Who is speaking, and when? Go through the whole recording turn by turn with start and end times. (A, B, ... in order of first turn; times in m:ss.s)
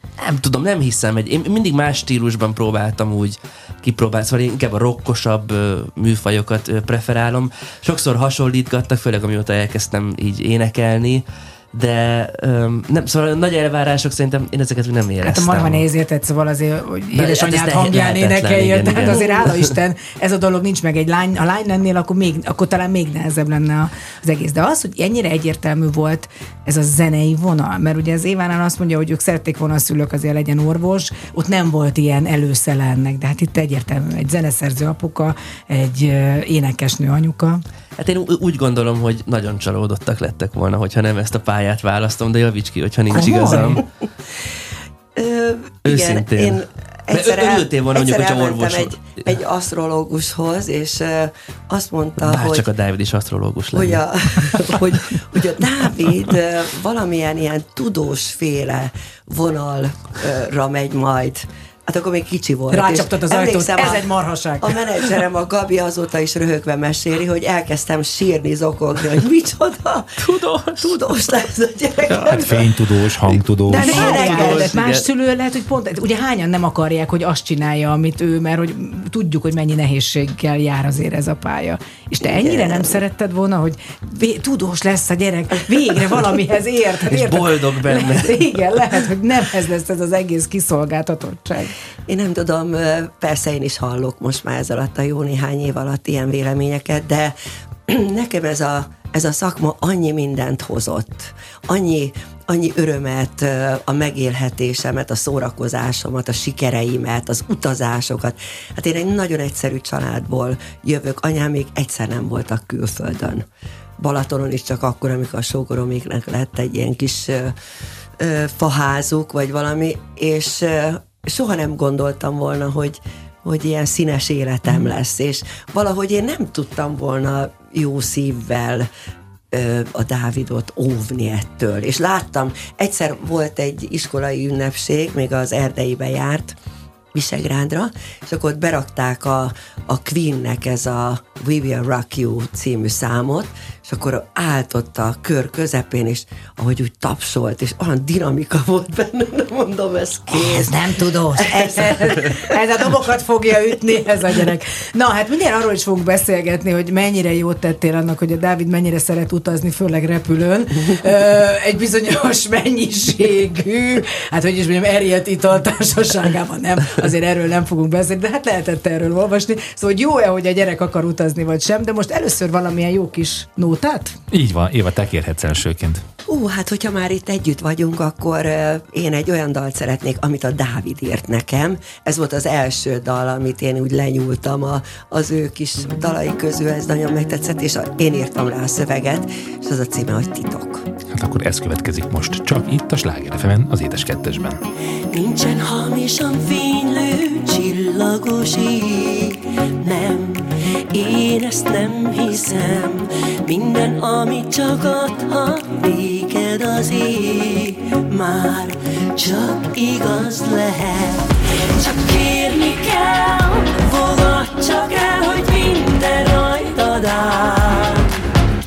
0:00.2-0:15.8 A
0:15.2-0:37.6 B
0:17.1-0:19.7 A
0:38.0-0:43.8 A
0:43.1-0:43.8 B
0:43.2-0:43.8 C
0:45.2-0:52.7 C
0:45.8-0:49.4 A
0:52.2-0:54.8 A
0:53.7-1:04.1 C
1:02.7-1:04.8 B
1:04.6-1:10.1 C
1:10.2-1:11.0 A
1:10.8-1:12.7 C
1:12.1-1:12.7 A
1:12.3-1:14.0 D
1:13.3-1:14.7 C
1:13.7-1:15.0 A
1:13.7-1:31.7 B
1:22.2-1:23.0 C
1:27.1-1:28.5 A
1:32.1-1:37.4 C
1:37.9-1:53.5 C
1:54.0-1:57.6 C
1:58.2-2:08.9 C
2:09.5-2:16.6 C
2:17.1-2:30.8 C
2:30.3-2:54.2 B
2:31.3-2:32.6 C
2:54.3-2:56.0 D
2:56.3-3:10.8 C
3:11.1-3:14.6 D
3:15.1-3:29.6 C
3:15.4-3:17.1 E
3:23.6-3:27.1 E
3:29.2-3:30.9 E
3:30.7-3:31.0 C
3:31.8-3:38.0 E